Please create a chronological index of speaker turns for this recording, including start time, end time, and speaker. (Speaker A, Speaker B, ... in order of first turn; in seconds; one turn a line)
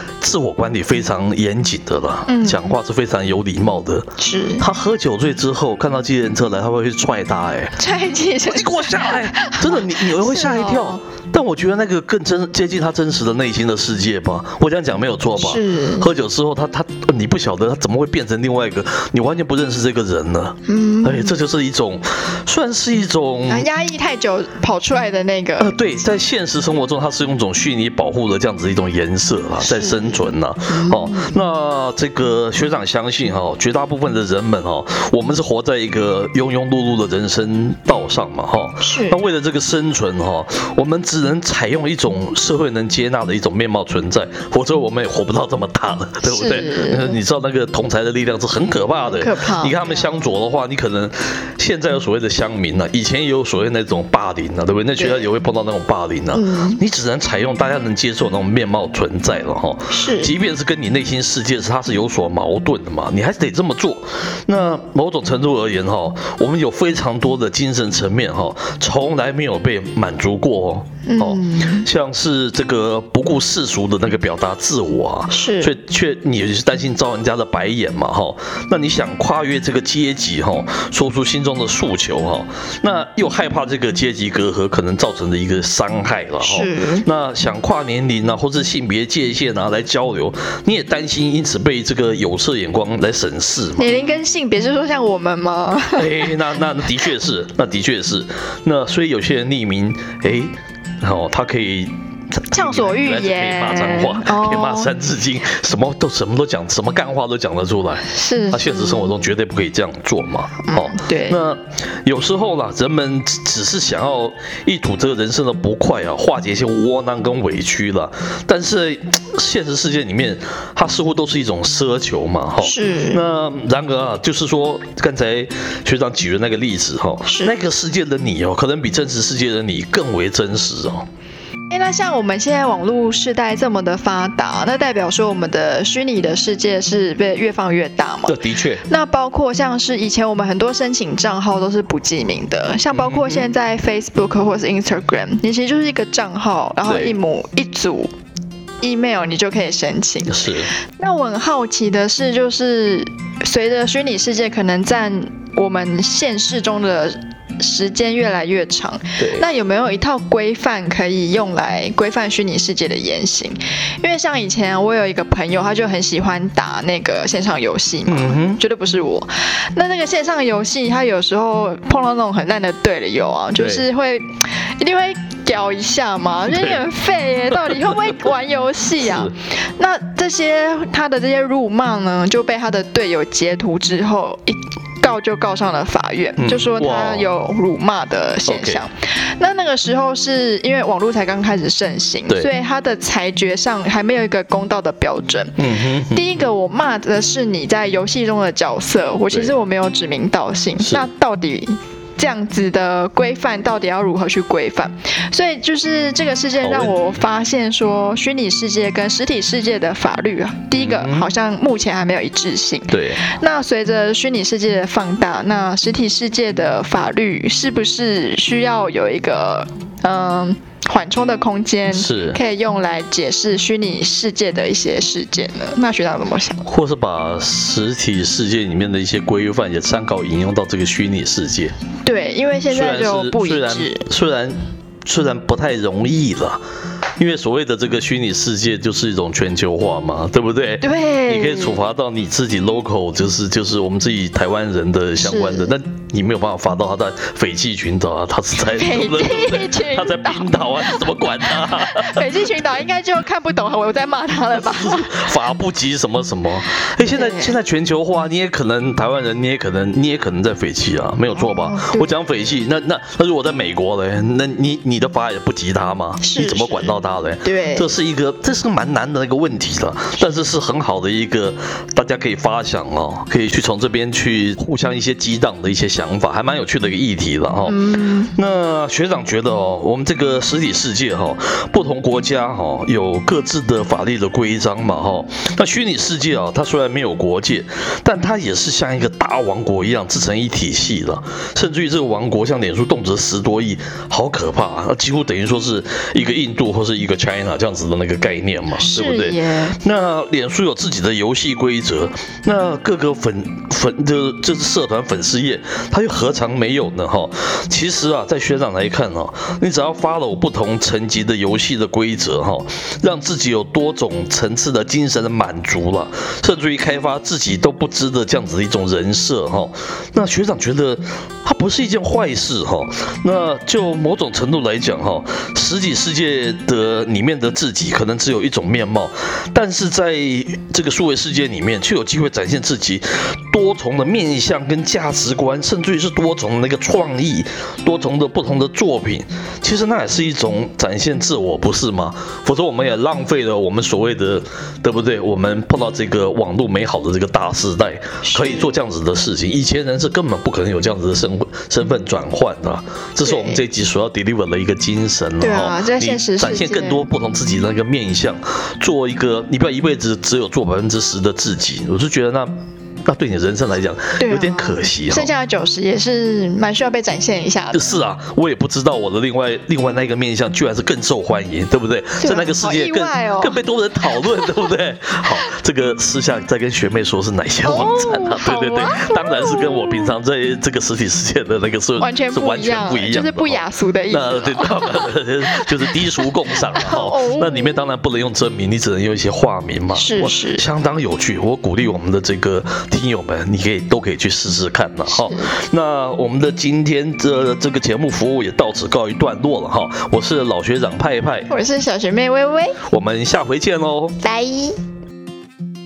Speaker A: 0.2-7.8
Speaker B: 2.3-2.6
Speaker B: 4.2-4.7
Speaker B: 7.8-11.0
Speaker A: 8.5-23.7
Speaker B: 15.3-16.1
Speaker B: 20.7-21.4
Speaker B: 23.5-25.7
Speaker A: 25.6-93.9
Speaker B: 29.6-31.4
Speaker B: 38.8-39.2
Speaker B: 46.2-47.2
Speaker B: 48.9-49.9
Speaker B: 55.0-55.3
Speaker B: 56.3-56.8
Speaker B: 59.9-60.3
Speaker B: 71.1-71.9
Speaker B: 75.3-75.8
Speaker B: 86.4-87.1
Speaker B: 93.8-96.4
Speaker A: 96.0-131.1
Speaker B: 102.5-104.9
Speaker B: 108.1-109.2
Speaker B: 110.7-111.4
Speaker B: 122.6-123.2
Speaker B: 127.3-127.5
Speaker B: 131.7-148.1
Speaker A: 138.3-138.9
Speaker A: 142.9-143.5
Speaker A: 146.8-147.2
Speaker B: 148.8-226.7
Speaker A: 150.3-150.7
Speaker A: 159.2-159.5
Speaker A: 168.1-168.6
Speaker A: 173.6-173.8
Speaker A: 176.5-176.8
Speaker A: 177.5-178.0
Speaker A: 179.0-179.3
Speaker A: 186.4-187.3
Speaker A: 188.5-188.8
Speaker A: 195.6-196.4
Speaker A: 200.8-201.1
Speaker A: 206.6-207.2
Speaker A: 210.8-211.3
Speaker A: 212.9-213.2
Speaker A: 221.9-222.4
Speaker A: 226.7-231.7
Speaker B: 232.0-234.1
Speaker A: 232.7-236.6
Speaker A: 237.2-252.5
Speaker B: 240.8-241.8
Speaker B: 245.2-245.7
Speaker B: 248.6-255.3
Speaker A: 254.5-362.5
Speaker B: 257.0-257.6
Speaker B: 261.3-262.2
Speaker B: 266.2-267.9
Speaker B: 277.7-278.3
Speaker B: 298.8-299.8
Speaker B: 348.2-348.7
Speaker B: 353.2-353.6
Speaker B: 355.4-357.1
Speaker A: 363.1-365.3
Speaker B: 364.2-367.9
Speaker A: 367.7-401.5
Speaker B: 372.2-373.6
Speaker B: 377.6-380.1
Speaker B: 382.0-385.9
Speaker B: 386.7-387.8
Speaker B: 389.9-390.6
Speaker B: 395.1-395.5
Speaker B: 401.5-402.8
Speaker A: 402.9-404.2
Speaker B: 404.2-404.8